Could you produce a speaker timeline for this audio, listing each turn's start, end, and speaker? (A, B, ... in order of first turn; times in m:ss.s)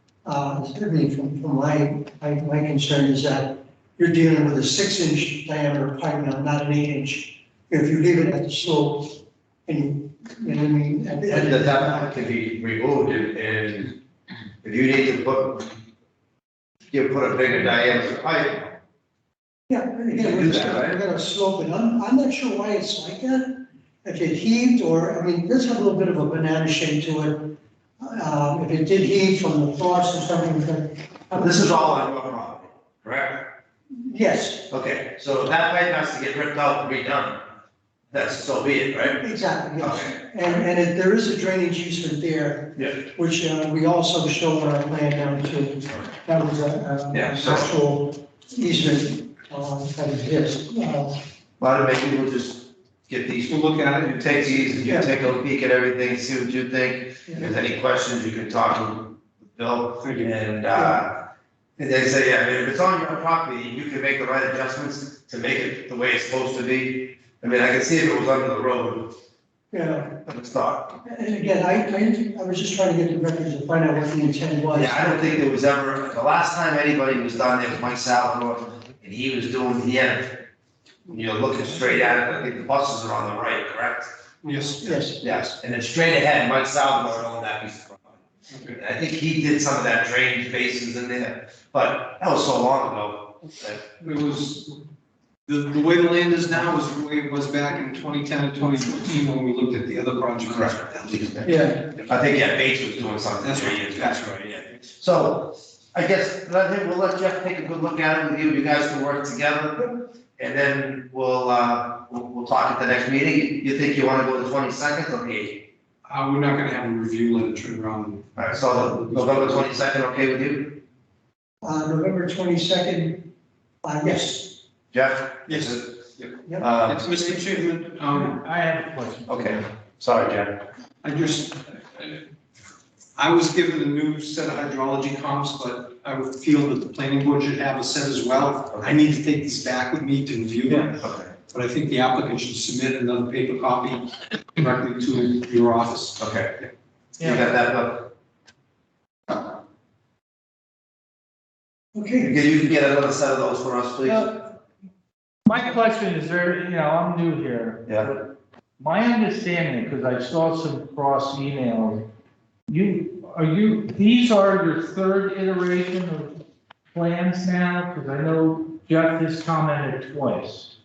0:00.2-0:12.2 A
0:11.3-0:13.9 B
0:14.6-0:15.7 B
0:16.9-0:18.7 B
0:19.7-0:31.8 A
0:20.2-0:21.0 B
0:31.3-0:33.4 B
0:34.0-0:34.7 A
0:34.7-0:37.4 B
0:38.1-0:39.2 B
0:39.2-0:51.2 A
0:39.8-0:40.2 B
0:47.1-0:47.7 B
0:51.6-1:01.2 B
0:53.5-0:54.9 C
0:54.9-0:55.1 A
1:00.0-1:00.3 C
1:01.8-1:09.1 B
1:09.7-1:10.2 A
1:10.3-1:10.9 B
1:11.0-1:15.4 A
1:14.7-1:20.3 B
1:21.1-1:24.1 B
1:24.4-1:24.9 C
1:24.5-1:25.2 A
1:25.2-1:28.0 B
1:28.5-1:28.8 C
1:28.8-1:33.8 B
1:34.0-1:34.8 C
1:35.5-1:41.1 C
1:40.5-1:55.6 B
1:41.4-1:41.8 A
1:43.4-1:44.4 C
1:56.1-1:59.7 C
1:58.4-2:00.8 B
2:01.6-2:03.3 A
2:03.8-2:04.6 A
2:04.9-2:05.9 B
2:05.5-2:08.4 C
2:06.6-2:07.1 B
2:08.1-2:09.7 D
2:09.3-2:10.6 B
2:11.0-2:12.2 C
2:13.2-2:26.2 C
2:20.7-2:21.0 D
2:21.0-2:21.3 B
2:26.2-2:26.6 B
2:27.2-2:28.1 B
2:27.2-2:27.4 D
2:32.0-2:32.4 A
2:32.2-2:34.3 B
2:35.5-2:42.1 D
2:42.7-2:46.3 D
2:46.9-2:50.7 D